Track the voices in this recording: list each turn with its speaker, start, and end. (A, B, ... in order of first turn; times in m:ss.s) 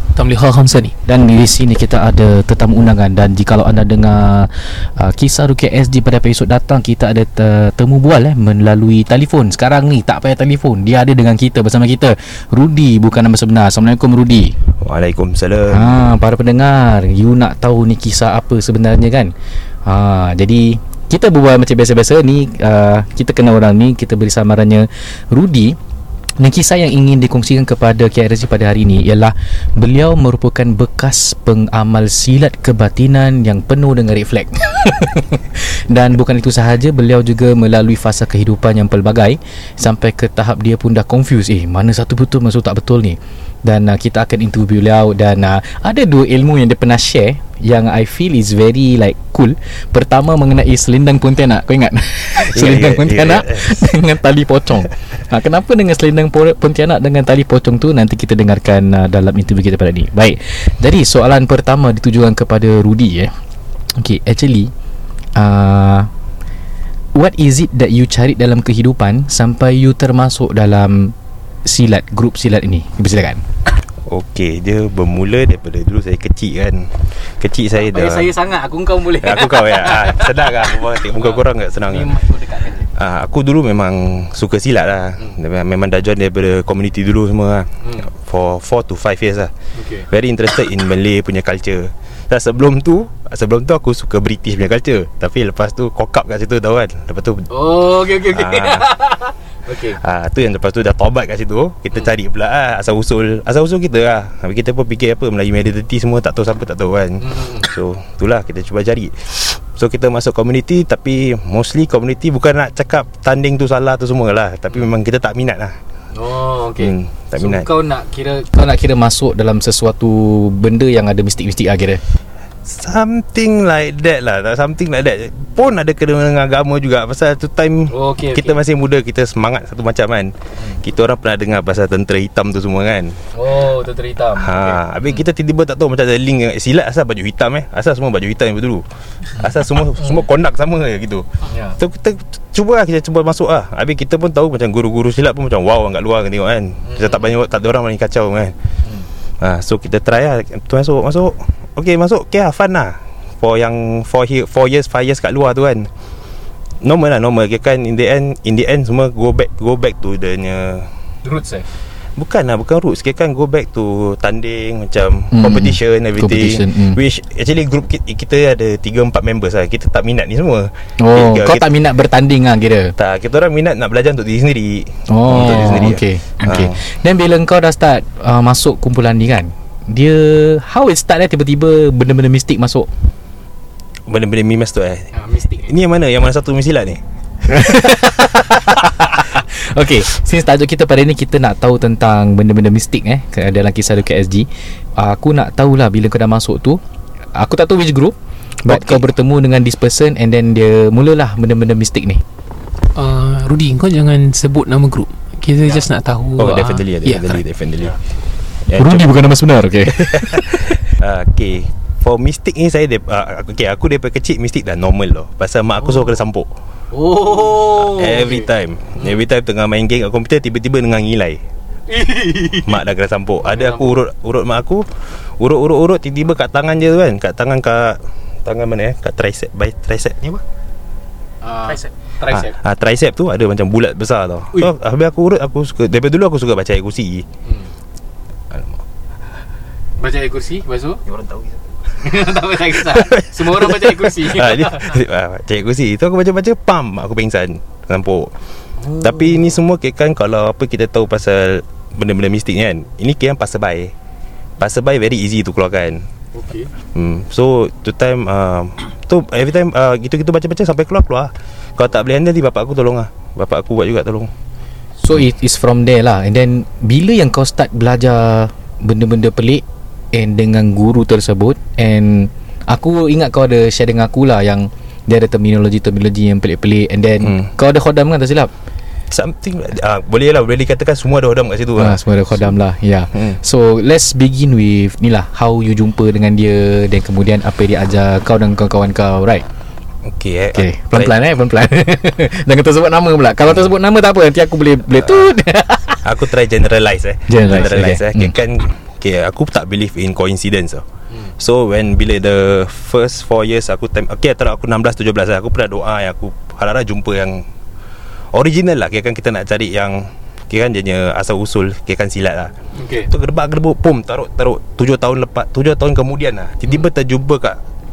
0:00.2-0:01.0 A
0:01.0-0:14.6 B
0:14.8-0:16.0 C
0:15.7-0:19.3 B
0:19.8-0:25.8 B
0:26.4-1:03.3 B
0:52.3-0:53.9 C
1:04.0-1:04.7 B
1:05.4-1:06.1 B
1:07.1-1:13.4 B
1:14.0-1:22.3 C
1:17.9-1:20.2 D
1:22.2-1:22.8 D
1:22.8-1:39.1 C
1:29.8-1:30.0 D
1:37.5-1:40.0 D
1:39.7-1:55.8 C
1:56.2-2:02.0 B
1:56.8-1:57.7 C
2:02.6-2:13.2 C
2:08.0-2:08.4 D
2:13.5-2:14.6 D
2:13.5-2:13.9 B
2:14.3-2:28.6 C
2:29.4-2:35.9 C
2:36.8-2:40.9 C
2:42.2-2:51.7 C
2:45.3-2:47.0 B
2:51.0-2:52.9 B
2:53.0-2:56.8 C
2:55.1-3:02.9 B
3:04.1-3:08.1 C
3:07.5-3:16.8 B
3:17.4-3:18.1 B
3:18.6-3:19.0 C
3:18.6-3:22.2 B
3:23.0-3:27.4 A
3:26.4-3:28.0 C
3:28.7-3:29.3 C
3:28.7-3:30.8 B
3:30.0-3:36.5 C
3:36.9-3:38.2 D
3:37.4-3:41.4 C
3:41.9-3:42.7 D
3:42.4-3:44.9 C
3:43.6-3:43.9 D
3:45.4-3:50.4 C
3:51.4-3:51.8 B
3:52.2-3:52.4 D
3:52.3-3:57.2 C
3:58.5-3:58.8 C
4:00.0-4:01.0 D
4:01.1-4:08.3 C
4:02.0-4:04.8 D
4:08.9-4:13.9 C
4:14.6-4:16.1 C
4:16.9-4:24.3 C
4:25.0-4:38.5 B
4:37.2-4:37.5 C
4:39.1-4:42.6 C
4:41.8-4:49.4 B
4:50.1-4:51.1 C
4:50.5-4:56.0 B
4:56.0-5:00.8 C
4:57.3-4:58.3 B
5:01.4-5:07.5 C
5:08.3-5:17.6 C